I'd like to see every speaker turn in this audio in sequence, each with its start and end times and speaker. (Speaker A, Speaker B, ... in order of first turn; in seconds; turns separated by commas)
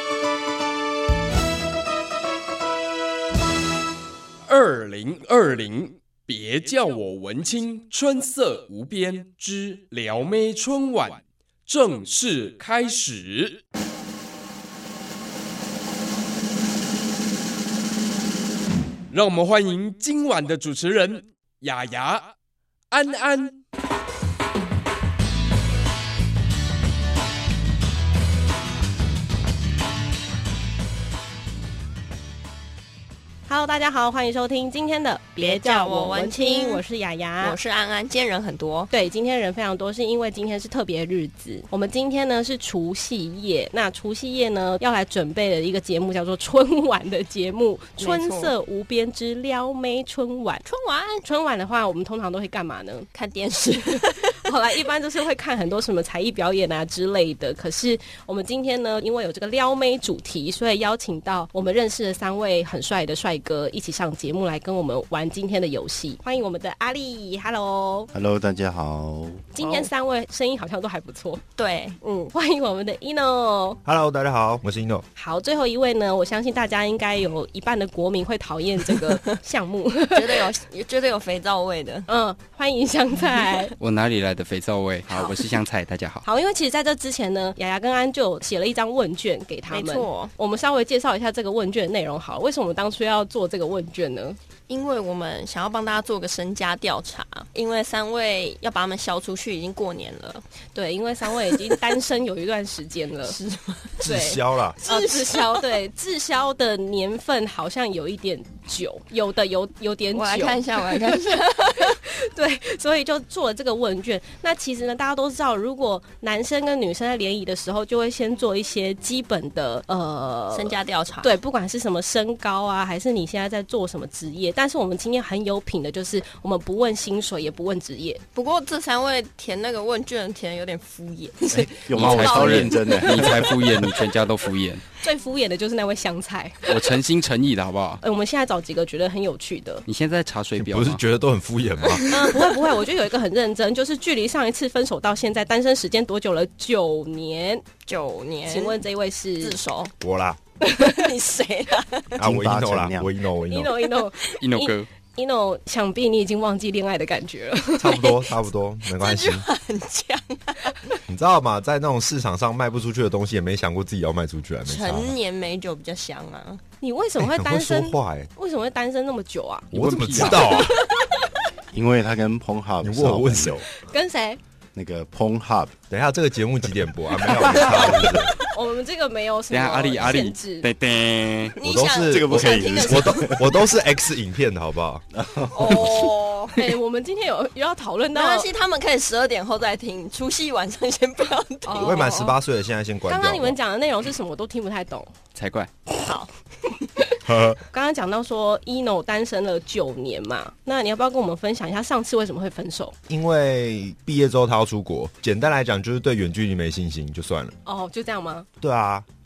Speaker A: 4.5-13.6, Speaker A: 19.1-22.3, Speaker A: 22.9-23.6, Speaker B: 33.5-37.6, Speaker C: 35.4-36.8, Speaker C: 37.4-38.9, Speaker B: 38.9-50.6, Speaker C: 48.0-48.5, Speaker C: 50.6-51.2, Speaker B: 51.2-53.1, Speaker C: 53.1-54.4, Speaker B: 54.0-68.1, Speaker D: 68.1-69.5, Speaker B: 69.5-71.4, Speaker C: 69.6-69.9, Speaker C: 71.5-72.0, Speaker B: 72.0-73.8, Speaker E: 73.8-75.0, Speaker B: 75.2-80.4, Speaker C: 80.1-82.1, Speaker B: 82.1-83.7, Speaker F: 83.8-86.2, Speaker C: 85.1-85.4, Speaker B: 86.2-94.4, Speaker C: 89.7-90.3, Speaker C: 94.7-100.4, Speaker B: 100.7-103.4, Speaker C: 103.2-104.0, Speaker B: 104.0-111.2, Speaker E: 104.0-104.8, Speaker C: 104.8-105.7, Speaker C: 110.1-112.0, Speaker B: 111.9-128.2, Speaker C: 120.5-121.3, Speaker C: 128.3-133.3, Speaker D: 131.5-133.9, Speaker F: 131.9-134.8, Speaker B: 135.0-136.9, Speaker F: 136.7-138.0, Speaker B: 138.0-139.8, Speaker F: 139.8-141.0, Speaker E: 140.6-142.1, Speaker C: 141.9-142.5, Speaker B: 142.1-147.6, Speaker C: 147.8-148.8, Speaker B: 148.5-149.6, Speaker C: 149.4-149.9, Speaker E: 150.0-150.4, Speaker B: 150.6-151.1, Speaker C: 150.8-152.2, Speaker E: 152.2-153.7, Speaker D: 152.2-153.1, Speaker B: 153.5-158.2, Speaker F: 154.4-154.9, Speaker E: 157.7-159.4, Speaker C: 159.0-160.8, Speaker E: 161.1-165.1, Speaker C: 164.7-166.6, Speaker B: 166.8-170.3, Speaker E: 167.2-168.3, Speaker E: 169.7-170.8, Speaker F: 169.7-170.6, Speaker D: 171.7-173.7, Speaker E: 172.8-173.6, Speaker B: 173.8-174.4, Speaker D: 174.7-175.8, Speaker E: 175.9-178.3, Speaker B: 177.5-180.7, Speaker F: 179.5-181.6, Speaker C: 181.6-183.4, Speaker E: 181.6-185.0, Speaker D: 182.1-183.5, Speaker D: 185.1-186.1, Speaker C: 185.5-186.6, Speaker B: 186.5-188.5, Speaker C: 188.1-192.2, Speaker B: 191.7-192.4, Speaker E: 191.8-193.6, Speaker B: 193.1-195.1, Speaker F: 195.3-195.7, Speaker C: 196.0-196.3, Speaker E: 197.2-197.6, Speaker B: 197.7-202.9, Speaker E: 203.1-207.5, Speaker B: 207.6-208.5, Speaker E: 208.6-209.1